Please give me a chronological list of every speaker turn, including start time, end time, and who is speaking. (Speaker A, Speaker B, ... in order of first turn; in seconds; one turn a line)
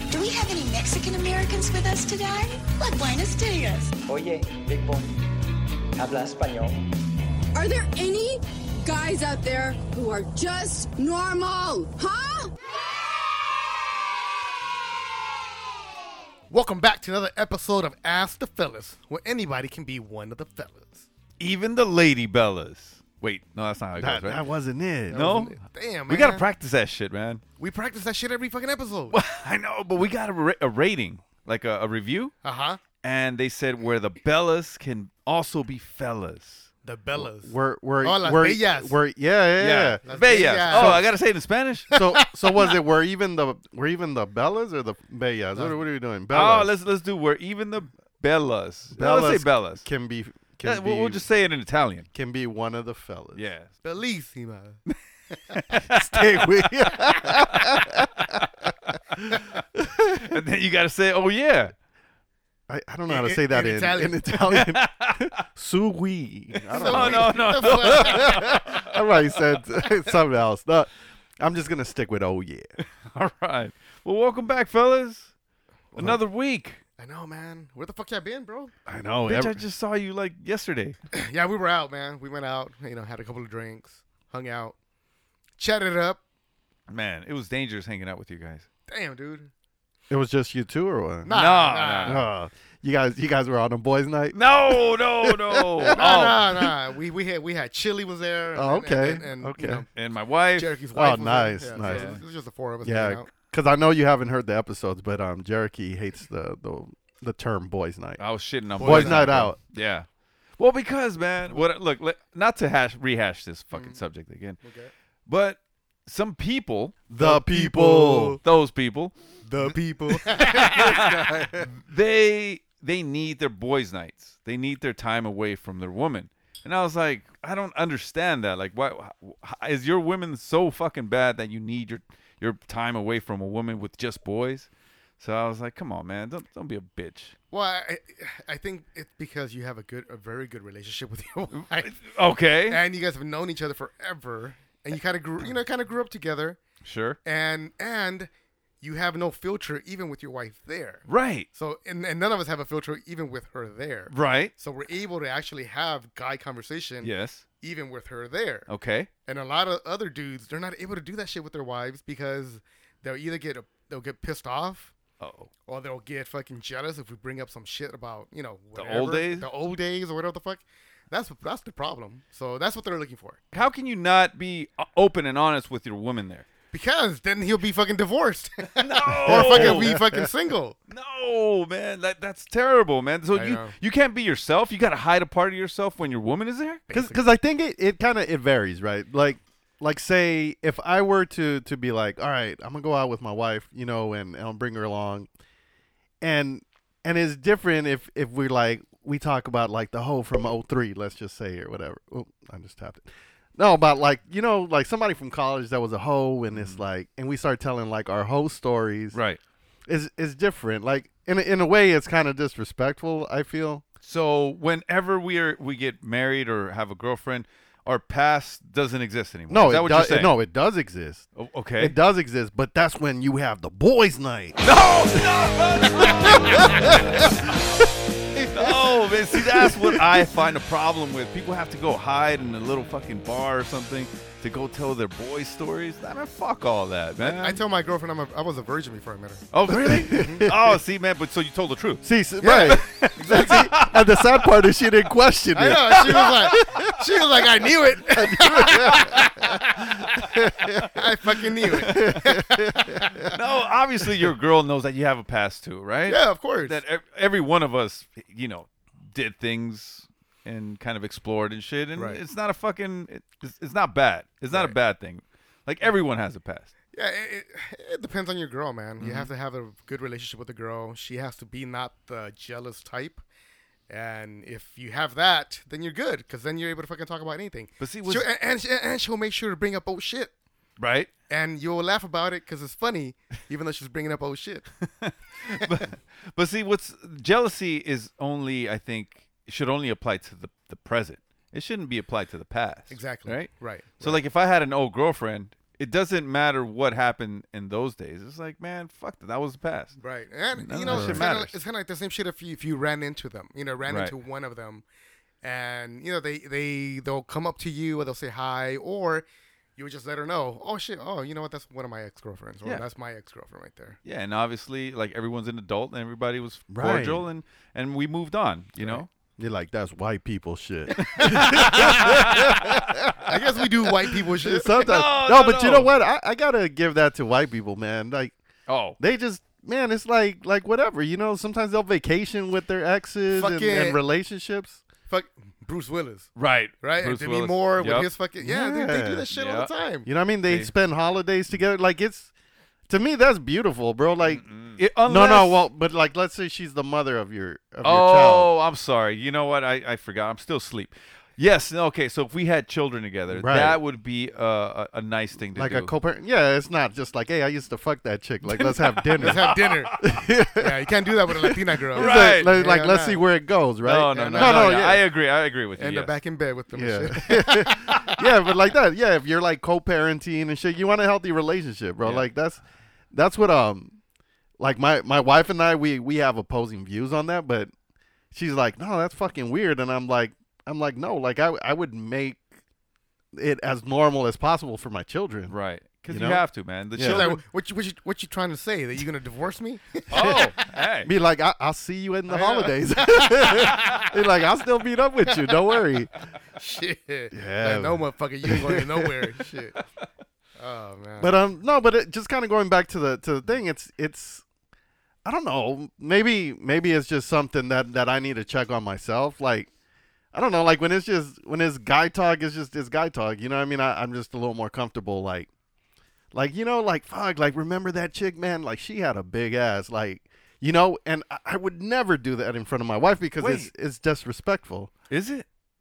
Speaker A: 0.1-3.9
Speaker B: 4.1-5.1
Speaker B: 5.9-6.8
Speaker C: 7.5-12.5
Speaker D: 16.5-21.1
Speaker E: 21.4-24.4
Speaker F: 24.0-25.4
Speaker D: 25.1-26.4
Speaker E: 25.1-27.4
Speaker D: 27.6-29.2
Speaker E: 29.1-32.3
Speaker D: 32.4-32.8
Speaker E: 33.0-36.7
Speaker D: 36.8-38.9
Speaker F: 37.1-40.0
Speaker E: 39.6-41.9
Speaker D: 40.1-41.1
Speaker F: 40.7-41.1
Speaker F: 41.9-46.7
Speaker D: 41.9-42.7
Speaker E: 46.3-49.9
Speaker F: 48.9-51.2
Speaker E: 50.6-52.1
Speaker F: 52.1-53.4
Speaker E: 53.3-53.7
Speaker D: 53.8-54.8
Speaker E: 55.5-57.9
Speaker F: 55.9-58.4
Speaker F: 59.2-60.4
Speaker E: 60.1-61.7
Speaker F: 62.7-72.7
Speaker D: 63.1-64.2
Speaker E: 64.5-65.3
Speaker E: 66.5-68.9
Speaker D: 66.7-68.6
Speaker E: 73.0-75.3
Speaker E: 76.0-76.8
Speaker D: 77.0-78.7
Speaker F: 78.9-79.6
Speaker E: 79.2-81.0
Speaker D: 81.1-84.8
Speaker D: 85.6-86.2
Speaker E: 86.9-88.7
Speaker D: 88.9-89.5
Speaker F: 90.1-91.3
Speaker D: 91.2-92.2
Speaker E: 91.3-92.2
Speaker F: 92.0-96.0
Speaker E: 94.3-96.5
Speaker D: 95.9-99.9
Speaker F: 98.5-99.8
Speaker E: 99.9-100.7
Speaker D: 100.5-103.3
Speaker F: 100.9-102.2
Speaker E: 101.8-102.2
Speaker F: 102.8-108.2
Speaker E: 108.2-110.0
Speaker D: 108.8-109.3
Speaker F: 108.8-109.6
Speaker E: 110.6-114.6
Speaker D: 114.6-114.9
Speaker E: 115.3-117.0
Speaker F: 117.1-118.4
Speaker D: 117.2-118.4
Speaker E: 118.4-119.1
Speaker D: 119.4-121.2
Speaker E: 120.1-134.7
Speaker F: 120.6-121.7
Speaker E: 135.2-137.3
Speaker D: 137.5-141.9
Speaker E: 141.6-142.8
Speaker D: 142.7-146.6
Speaker E: 146.8-147.2
Speaker D: 147.2-148.3
Speaker D: 148.8-158.7
Speaker E: 151.1-151.5
Speaker E: 154.1-154.5
Speaker E: 157.0-157.4
Speaker E: 158.7-159.1
Speaker D: 159.2-164.9
Speaker E: 165.2-165.5
Speaker D: 165.7-173.4
Speaker E: 168.7-169.5
Speaker E: 173.5-176.4
Speaker D: 176.7-180.8
Speaker E: 178.8-180.0
Speaker F: 179.2-180.3
Speaker E: 180.9-186.8
Speaker D: 183.3-183.7
Speaker D: 186.9-187.2
Speaker F: 186.9-195.3
Speaker F: 196.2-209.2
Speaker E: 206.5-206.8
Speaker E: 209.1-209.4
Speaker F: 209.9-213.8
Speaker E: 214.0-220.3
Speaker F: 219.5-221.3
Speaker E: 221.3-221.9
Speaker F: 221.8-224.6
Speaker E: 224.6-227.5
Speaker F: 225.8-227.8
Speaker F: 228.3-230.2
Speaker E: 228.5-237.6
Speaker D: 237.2-239.5
Speaker E: 239.5-242.0
Speaker F: 239.7-240.8
Speaker D: 240.1-240.4
Speaker F: 242.0-246.9
Speaker D: 242.4-243.7
Speaker E: 243.0-244.4
Speaker D: 245.5-249.8
Speaker E: 246.0-246.8
Speaker F: 248.1-249.3
Speaker E: 248.8-249.2
Speaker F: 250.1-251.0
Speaker D: 250.8-253.3
Speaker F: 251.7-253.3
Speaker E: 251.8-252.2
Speaker E: 253.3-266.7
Speaker D: 256.1-256.8
Speaker D: 264.5-264.7
Speaker D: 266.9-273.2
Speaker E: 269.0-269.3
Speaker D: 273.9-280.3
Speaker E: 277.8-278.3
Speaker E: 280.8-281.1
Speaker D: 281.3-284.7
Speaker E: 285.0-300.0
Speaker D: 292.9-294.2
Speaker D: 300.0-304.8
Speaker E: 300.5-301.6
Speaker F: 300.9-301.2
Speaker E: 303.9-304.1
Speaker D: 305.4-309.2
Speaker D: 309.8-314.0
Speaker E: 314.0-319.1
Speaker F: 316.7-317.2
Speaker F: 319.4-323.4
Speaker D: 321.0-322.3
Speaker E: 321.0-323.2
Speaker D: 323.2-324.9
Speaker F: 324.4-328.3
Speaker E: 324.7-325.9
Speaker E: 328.7-329.0
Speaker F: 329.0-334.8
Speaker D: 333.3-334.0
Speaker D: 335.1-340.1
Speaker E: 336.4-338.1
Speaker F: 338.4-339.3
Speaker E: 339.3-339.7
Speaker F: 340.1-342.3
Speaker E: 340.5-340.7
Speaker F: 342.9-344.4
Speaker E: 344.2-345.7
Speaker F: 344.9-348.5
Speaker E: 347.8-355.9
Speaker F: 353.3-353.8
Speaker F: 355.5-360.9
Speaker E: 358.6-360.0
Speaker D: 359.2-363.2
Speaker E: 361.9-362.5
Speaker F: 361.9-365.0
Speaker E: 363.8-366.1
Speaker D: 364.1-365.0
Speaker D: 365.8-367.9
Speaker F: 366.7-372.6
Speaker F: 373.1-374.0
Speaker F: 374.6-377.7
Speaker F: 378.3-382.4
Speaker F: 383.3-385.6
Speaker E: 385.5-387.4
Speaker F: 386.1-387.3
Speaker D: 387.0-390.1
Speaker E: 390.1-391.1
Speaker F: 390.1-396.1
Speaker D: 392.3-394.1
Speaker D: 396.6-399.8
Speaker F: 397.3-399.1
Speaker D: 400.6-401.4
Speaker F: 401.2-404.4
Speaker F: 405.2-409.7
Speaker F: 410.3-415.5
Speaker F: 416.3-424.9
Speaker E: 423.4-423.7
Speaker E: 425.1-425.4